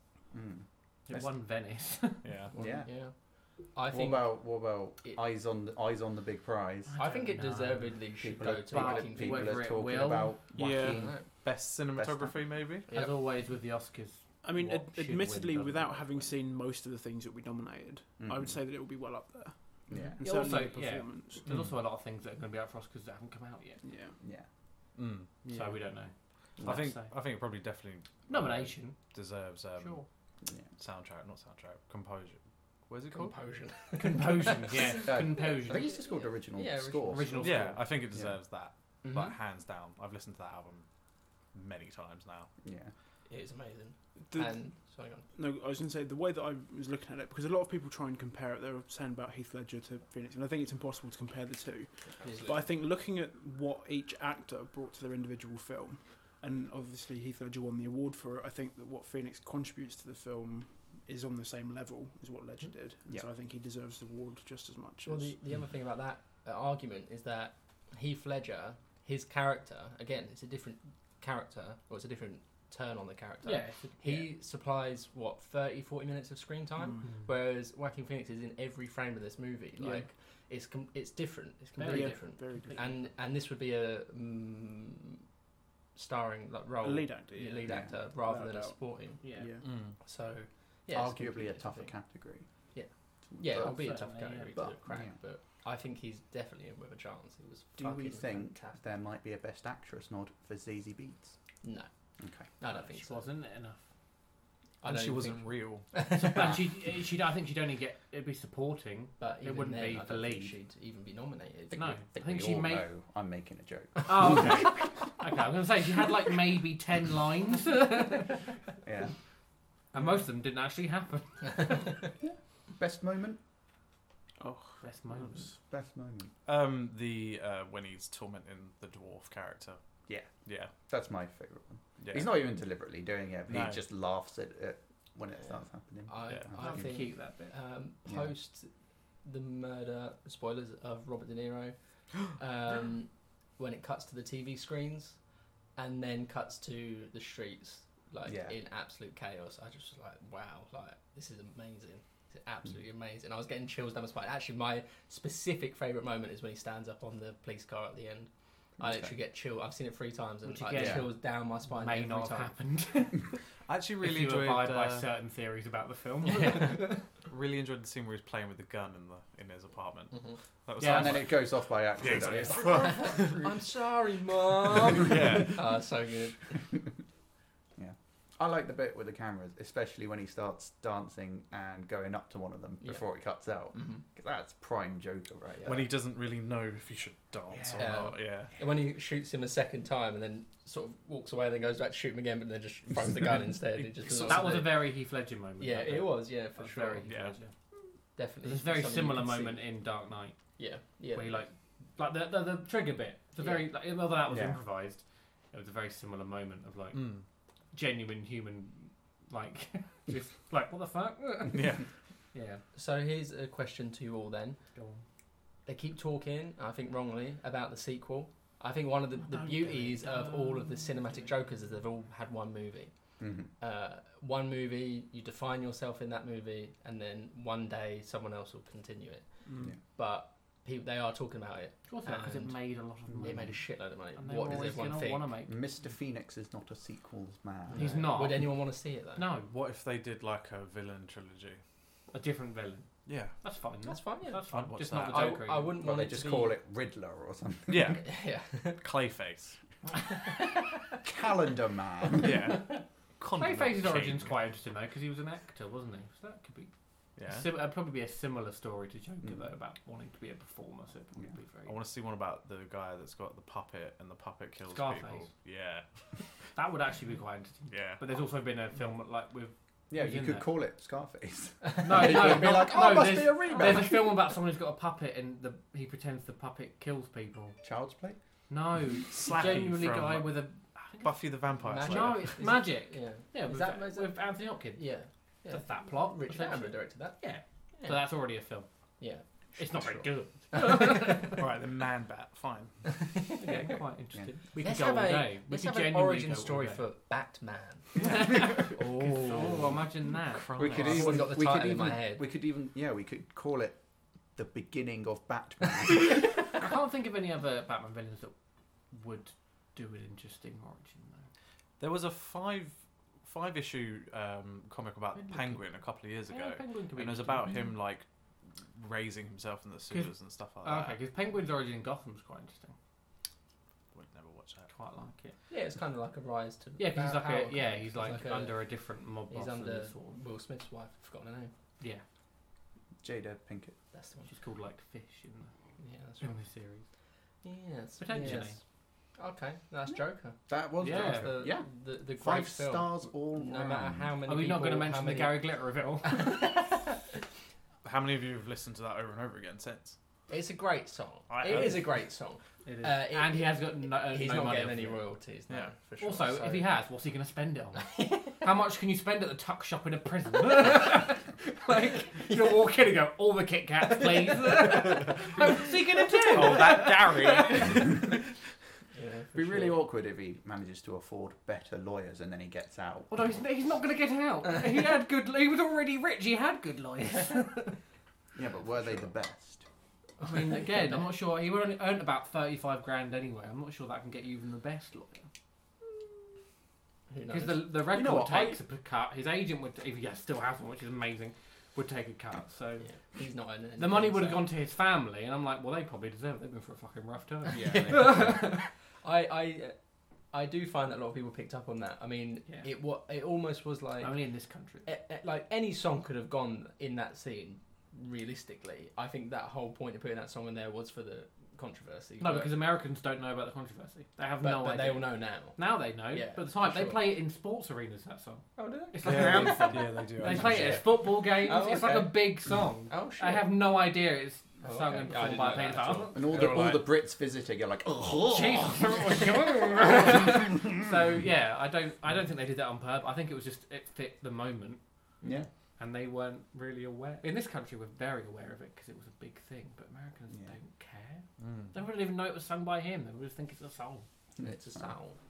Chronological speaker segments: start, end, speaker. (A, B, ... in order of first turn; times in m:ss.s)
0:00.3-0:01.3 A
0:01.1-0:02.4 B
0:02.2-0:02.5 C
0:02.5-0:04.4 D
0:02.6-0:02.9 A
0:03.9-0:07.0 A
0:06.9-0:08.1 B
0:07.0-0:09.6 D
0:08.2-0:12.5 A
0:08.7-0:10.5 B
0:10.5-0:11.0 E
0:11.0-0:11.2 D
0:11.3-0:12.9 C
0:12.9-0:16.3 B
0:12.9-0:13.2 D
0:14.4-0:21.5 E
0:18.2-0:18.6 A
0:19.9-0:20.2 A
0:20.0-0:23.8 B
0:21.5-0:21.7 C
0:23.8-0:24.2 E
0:24.2-0:24.5 A
0:25.0-0:25.4 C
0:25.4-0:25.8 E
0:25.5-0:27.1 B
0:26.6-0:26.9 A
0:26.6-0:30.0 C
0:28.3-0:29.0 B
0:29.8-0:30.1 B
0:30.8-0:33.4 C
0:33.1-0:37.2 D
0:33.9-0:35.9 B
0:35.0-0:37.5 A
0:37.1-0:37.9 B
0:37.4-0:40.9 C
0:39.0-0:39.4 D
0:41.5-0:42.5 C
0:42.6-0:42.9 A
0:43.3-0:45.2 D
0:44.3-0:44.6 E
0:45.3-1:05.4 E
0:52.2-0:52.6 D
1:05.0-1:25.2 D
1:13.4-1:14.3 B
1:16.8-1:17.1 E
1:17.0-1:17.3 B
1:19.8-1:20.1 E
1:21.8-1:22.9 B
1:21.8-1:23.0 E
1:26.0-1:32.0 D
1:26.8-1:29.7 E
1:27.7-1:27.9 A
1:29.2-1:29.6 B
1:29.6-1:30.0 C
1:30.9-1:32.5 A
1:32.7-1:38.8 D
1:33.3-1:33.8 A
1:33.5-1:34.7 B
1:34.5-1:35.2 A
1:37.8-1:41.4 A
1:41.6-1:41.9 D
1:42.2-1:42.5 A
1:42.6-1:43.3 D
1:42.7-1:43.9 B
1:44.8-1:46.6 D
1:44.8-1:46.0 C
1:46.0-1:50.6 B
1:49.2-1:52.0 D
1:51.7-1:54.8 A
1:51.8-1:52.9 B
1:54.1-1:58.6 B
1:58.8-1:59.1 A
1:59.9-2:02.1 B
2:02.2-2:03.4 A
2:04.4-2:05.4 E
2:04.8-2:05.6 B
2:05.6-2:06.3 A
2:06.5-2:09.8 C
2:10.1-2:16.8 A
2:10.4-2:10.7 C
2:12.0-2:12.3 C
2:13.5-2:13.8 C
2:16.1-2:18.7 D
2:16.5-2:17.6 B
2:19.2-2:25.2 D
2:25.8-2:42.6 D
2:28.3-2:28.6 A
2:38.8-2:39.1 A
2:40.4-2:43.4 B
2:40.8-2:41.1 A
2:43.7-2:45.1 C
2:44.0-2:47.2 B
2:46.4-2:46.7 D
2:47.0-2:53.5 C
2:50.8-2:51.5 B
2:50.8-2:53.1 A
2:52.2-2:53.0 B
2:52.9-2:56.6 D
2:54.9-2:55.6 C
2:57.8-3:05.8 A
3:03.7-3:04.0 D
3:05.6-3:08.5 C
3:07.8-3:14.9 D
3:13.8-3:14.6 C
3:14.2-3:17.5 B
3:15.6-3:17.4 D
3:17.1-3:17.4 C
3:18.2-3:19.6 D
3:18.4-3:20.6 B
3:20.6-3:21.5 D
3:21.1-3:31.8 B
3:23.4-3:23.7 D
3:24.3-3:24.6 A
3:26.9-3:27.2 C
3:31.5-3:31.9 C
3:32.3-3:32.6 B
3:32.8-3:34.6 D
3:34.8-3:35.0 B
3:35.7-3:55.3 D
3:39.4-3:41.4 B
3:43.2-3:43.5 A
3:49.4-3:49.8 E
3:51.9-3:55.6 B
3:53.1-3:53.4 A
3:55.5-3:58.2 A
3:57.7-3:59.2 D
3:57.7-3:58.6 B
3:59.2-3:59.5 B
3:59.5-4:01.6 C
4:02.1-4:05.8 B
4:03.1-4:03.4 C
4:03.8-4:04.4 D
4:04.5-4:05.4 C
4:05.0-4:06.6 D
4:05.8-4:08.0 A
4:07.7-4:09.6 C
4:08.0-4:08.8 D
4:10.2-4:11.0 D
4:11.0-4:12.4 A
4:12.2-4:14.4 C
4:13.4-4:21.8 B
4:17.2-4:17.5 C
4:21.6-4:26.2 C
4:24.7-4:25.3 B
4:26.5-4:30.5 B
4:27.7-4:28.0 C
4:29.9-4:34.1 A
4:31.8-4:32.2 D
4:31.8-4:37.6 B
4:37.6-4:38.2 A
4:38.5-4:45.0 B
4:39.0-4:42.4 C
4:41.6-4:47.2 D
4:45.5-4:48.7 B
4:47.8-4:48.0 D
4:49.6-4:51.5 B
4:49.6-4:50.1 A
4:50.5-4:51.3 D
4:51.3-4:53.0 C
4:53.2-4:53.6 D
4:53.2-4:56.9 B
4:54.6-4:57.9 D
4:58.0-5:01.1 B
4:58.6-4:59.8 C
5:00.3-5:01.2 C
5:00.6-5:03.8 A
5:00.8-5:02.2 D
5:04.4-5:06.3 A
5:06.0-5:08.4 B
5:08.9-5:11.3 B
5:11.8-5:18.1 C
5:15.1-5:17.7 B
5:18.6-5:21.0 C
5:19.9-5:22.8 B
5:23.9-5:24.7 C
5:24.7-5:25.4 B
5:25.5-5:28.6 D
5:26.8-5:30.2 B
5:29.3-5:31.5 D
5:33.0-5:33.8 A
5:33.9-5:34.3 D
5:34.3-5:35.5 B
5:35.8-5:36.3 D
5:36.2-5:36.9 B
5:37.4-5:38.6 D
5:38.0-5:38.6 B
5:39.2-5:45.5 D
5:40.5-5:44.2 A
5:40.8-5:41.4 B
5:44.3-5:46.7 B
5:46.0-5:46.8 D
5:47.8-5:50.0 C
5:50.3-5:56.8 D
5:51.3-5:51.9 C
5:52.6-5:55.0 B
5:56.0-6:08.1 B
5:57.8-5:58.4 D
6:02.3-6:02.6 D
6:04.0-6:05.6 D
6:06.1-6:06.8 D
6:06.3-6:07.9 C
6:08.9-6:09.8 D
6:09.4-6:13.4 A
6:13.1-6:17.8 B
6:17.2-6:17.7 D
6:18.4-6:19.7 A
6:20.2-6:21.1 D
6:20.2-6:25.3 B
6:27.1-6:27.7 D
6:27.3-6:33.0 B
6:27.9-6:28.6 A
6:32.8-6:34.5 D
6:33.8-6:38.7 B
6:37.5-6:38.4 A
6:37.5-6:39.8 D
6:40.3-6:52.5 D
6:44.0-6:44.9 B
6:52.2-7:06.5 B
6:54.4-6:57.0 D
6:58.6-7:03.5 D
6:59.0-7:00.8 C
7:04.6-7:06.9 D
7:06.1-7:09.0 A
7:08.2-7:14.8 B
7:15.2-7:15.5 A
7:15.8-7:24.1 B
7:21.4-7:21.7 C
7:24.4-7:25.2 D
7:24.4-7:24.9 A